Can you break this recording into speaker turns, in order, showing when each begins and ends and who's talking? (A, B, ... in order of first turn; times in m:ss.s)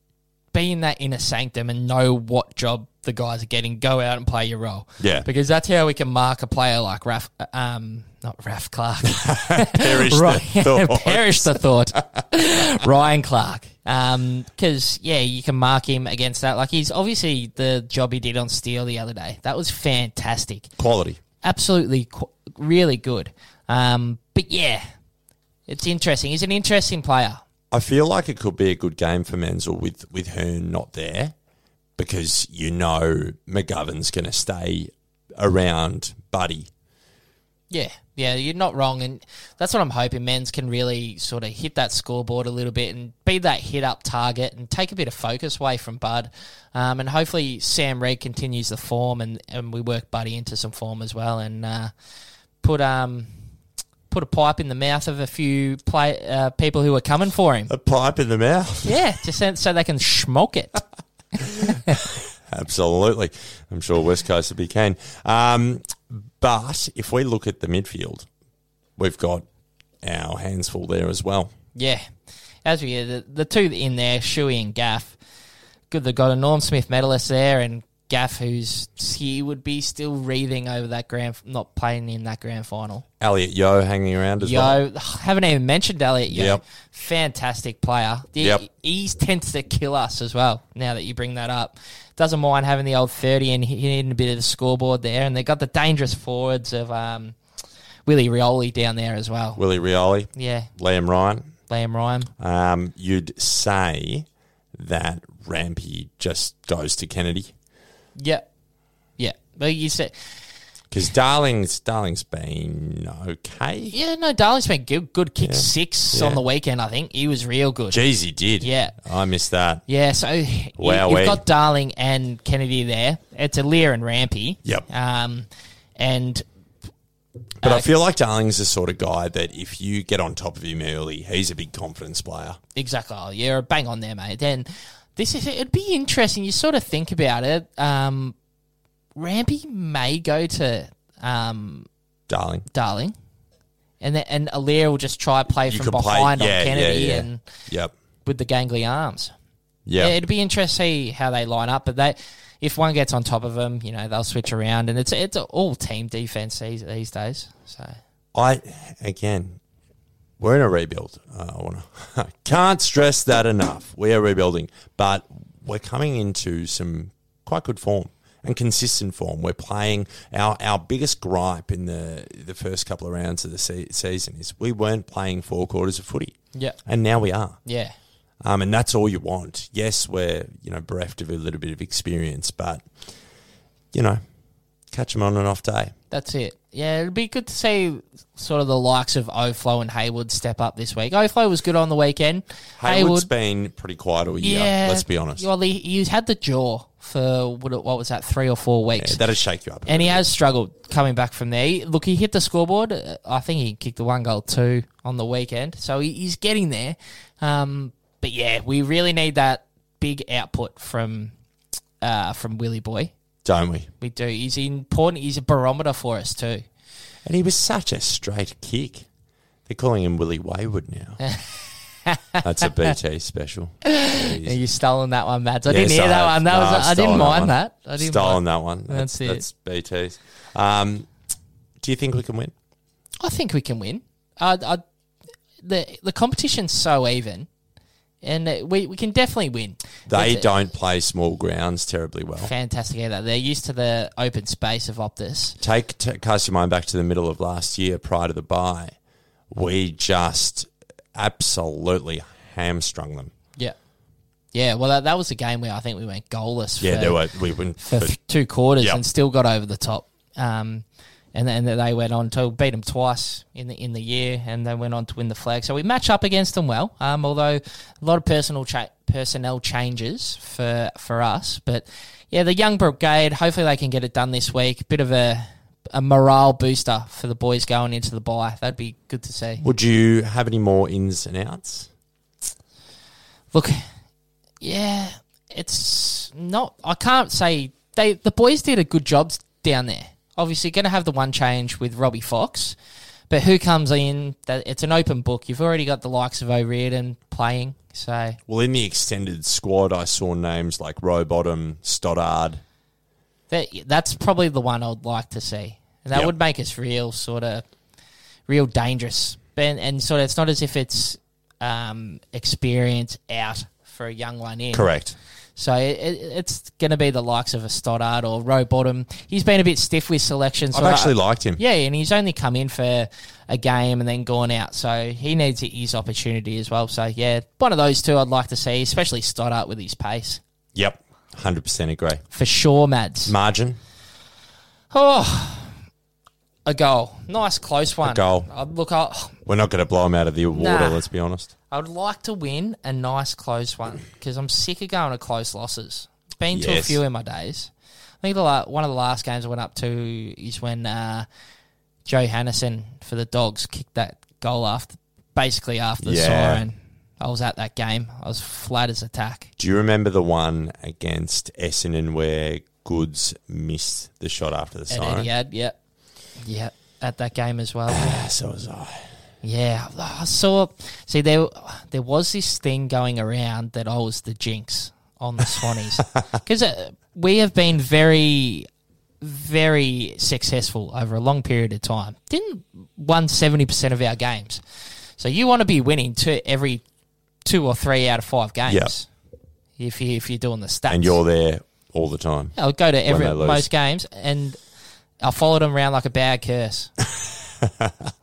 0:00.5-0:20.7 A
0:05.0-0:05.3 B
0:09.2-0:12.0 B
0:20.8-0:21.2 B
0:21.4-0:24.8 A
0:25.7-0:27.4 A
0:27.7-0:31.4 B
0:32.0-0:36.7 B
0:37.7-0:51.9 A
0:52.6-0:53.3 A
0:54.1-0:57.7 A
0:57.7-0:59.0 B
0:58.8-1:00.8 A
1:01.4-1:08.3 B
1:09.0-1:09.5 B
1:10.0-1:11.5 B
1:11.8-1:12.0 A
1:12.6-1:15.2 A
1:15.9-1:23.0 A
1:23.2-1:24.8 B
1:24.4-1:37.4 A
1:26.3-1:26.6 B
1:28.4-1:28.6 B
1:38.1-1:39.6 A
1:39.6-1:41.5 B
1:40.4-1:40.7 A
1:41.7-1:42.3 A
1:42.4-1:47.5 B
1:48.2-1:48.5 A
1:49.2-1:50.1 A
1:50.9-1:54.0 B
1:53.9-1:58.0 A
1:55.4-1:56.4 B
1:57.9-1:59.8 B
1:58.6-1:59.0 A
1:59.9-2:06.4 A
2:00.8-2:01.4 B
2:07.6-2:07.9 A
2:07.6-2:12.6 B
2:12.8-2:18.4 A
2:19.2-2:21.9 A
2:22.3-2:22.7 B
2:22.7-2:23.1 A
2:24.0-2:27.4 A
2:25.7-2:27.9 B
2:28.2-2:29.3 A
2:29.9-2:30.2 B
2:30.0-2:38.0 A
2:38.3-2:39.6 B
2:40.4-2:57.6 B
2:57.6-2:58.0 A
2:58.4-3:02.9 B
3:03.9-3:04.2 B
3:04.9-3:05.9 B
3:06.1-3:13.3 A
3:12.8-3:15.4 B
3:14.4-3:19.2 A
3:19.0-3:20.2 B
3:19.9-3:31.3 A
3:32.0-3:33.1 A
3:33.4-3:33.9 B
3:34.0-3:36.7 A
3:37.2-3:39.1 B
3:39.7-3:41.2 B
3:41.2-3:41.5 A
3:42.1-3:42.8 A
3:42.4-3:44.6 B
3:43.8-3:49.4 A
3:45.7-3:51.1 B
3:51.8-3:52.5 B
3:53.2-3:54.8 A
3:55.6-3:57.5 A
3:58.2-4:00.5 A
4:00.1-4:02.5 B
4:02.4-4:05.6 A
4:05.6-4:09.0 B
4:09.5-4:13.3 B
4:14.5-4:17.2 A
4:16.8-4:18.2 B
4:17.8-4:39.6 A
4:39.6-4:41.9 B
4:43.5-4:43.8 A
4:44.6-4:52.8 A
4:53.3-4:58.4 A
4:58.5-5:02.6 B
5:03.5-5:07.6 A
5:08.5-5:14.9 A
5:14.7-5:15.2 B
5:15.6-5:30.4 A
5:20.7-5:21.6 B
5:30.8-5:32.2 B
5:32.3-5:33.4 A
5:33.3-5:33.8 B
5:34.9-5:35.7 A
5:36.7-5:39.4 A
5:38.0-5:38.5 B
5:39.5-5:41.5 B
5:40.5-5:41.1 A
5:41.7-5:47.7 A
5:46.5-5:47.0 B
5:48.2-5:51.3 A
5:52.1-5:59.5 A
5:56.0-5:56.6 B
5:59.6-6:05.3 B
6:04.9-6:05.8 A
6:06.4-6:08.2 A
6:07.9-6:09.1 B
6:09.4-6:18.7 A
6:19.2-6:24.6 A
6:25.2-6:26.8 A
6:27.4-6:29.1 A
6:28.7-6:29.0 B
6:29.8-6:31.2 A
6:30.9-6:32.6 B
6:32.6-6:34.6 A
6:33.1-6:33.7 B
6:35.2-6:36.9 A
6:37.6-6:37.9 B